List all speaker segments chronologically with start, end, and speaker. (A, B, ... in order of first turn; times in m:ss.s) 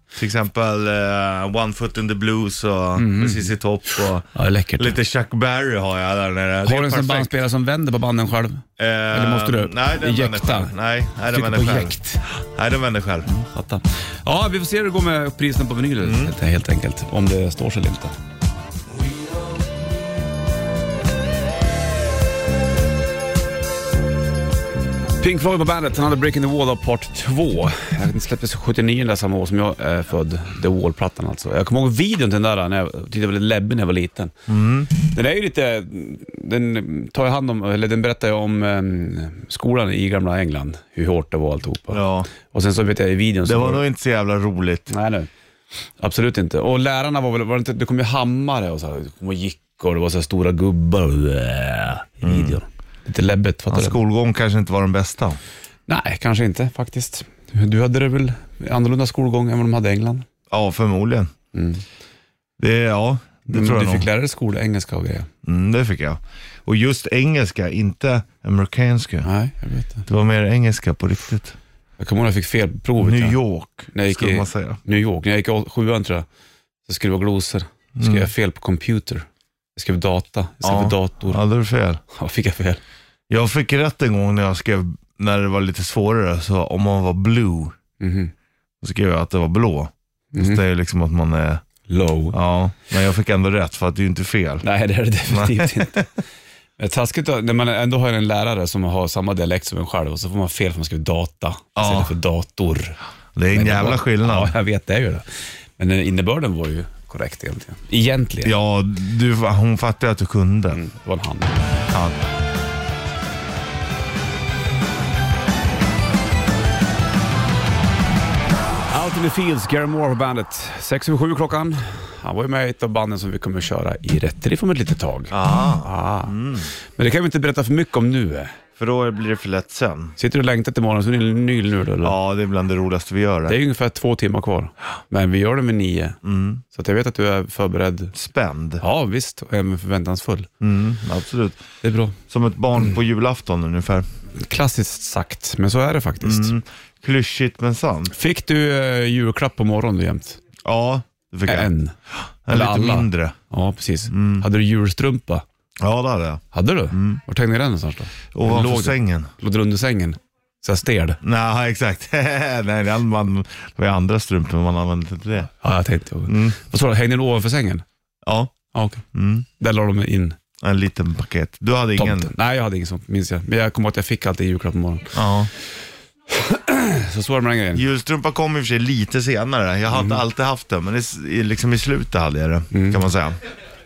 0:00.1-0:07.3 A
0:03.0-0:03.5 B
0:04.3-0:05.0 B
0:06.6-0:10.7 B
0:08.8-0:13.3 A
0:11.3-0:12.2 B
0:13.3-0:18.1 B
0:16.0-0:16.3 A
0:25.2-0:34.3 B
0:34.5-0:34.9 A
0:34.9-0:43.8 B
0:41.9-0:42.3 A
0:43.4-0:44.9 A
0:44.9-0:45.3 B
0:46.0-0:54.0 B
0:52.2-0:52.6 A
0:53.7-0:55.4 A
0:55.9-1:00.2 B
1:00.5-1:01.3 A
1:01.5-1:01.8 B
1:02.6-1:04.1 A
1:03.5-1:05.3 B
1:05.4-1:09.3 A
1:09.2-1:10.0 B
1:10.1-1:11.6 A
1:12.0-1:13.4 B
1:13.0-1:14.8 A
1:13.9-1:16.2 B
1:16.9-1:21.4 B
1:18.0-1:18.3 A
1:20.6-1:22.0 A
1:22.1-1:22.8 B
1:23.3-1:27.8 A
1:28.0-1:28.3 B
1:28.8-1:31.6 A
1:30.3-1:30.6 B
1:31.9-1:32.4 B
1:32.3-1:34.6 A
1:34.6-1:36.1 B
1:35.3-1:36.0 A
1:36.8-1:43.0 B
1:41.8-1:42.1 A
1:43.3-1:44.5 A
1:43.5-1:45.2 B
1:45.8-1:48.5 B
1:48.4-1:50.8 A
1:50.7-1:51.6 B
1:58.9-2:08.6 B
2:05.3-2:06.7 A
2:08.8-2:10.1 A
2:10.2-2:12.2 B
2:12.0-2:13.6 A
2:13.5-2:16.2 B
2:16.2-2:16.6 A
2:16.7-2:18.1 B
2:18.1-2:18.8 A
2:18.8-2:20.5 B
2:20.6-2:21.6 A
2:21.8-2:22.2 B
2:22.3-2:24.0 A
2:24.4-2:26.5 B
2:26.2-2:28.1 A
2:28.1-2:30.4 B
2:30.6-2:31.7 A
2:31.4-2:31.9 B
2:32.4-2:33.4 A
2:32.5-2:35.4 B
2:34.1-2:34.4 A
2:35.8-2:37.2 A
2:36.5-2:41.2 B
2:38.3-2:39.3 A
2:41.2-2:45.5 A
2:45.6-2:47.8 B
2:46.3-2:46.6 A
2:48.2-2:48.5 A
2:48.7-2:49.0 B
2:49.1-2:49.4 A
2:49.6-2:50.4 B
2:50.6-2:52.3 A
2:52.0-2:55.2 B
2:55.1-2:55.5 A
2:56.3-2:57.8 B
2:57.7-3:03.4 A
2:59.9-3:00.2 B
3:02.7-3:03.0 B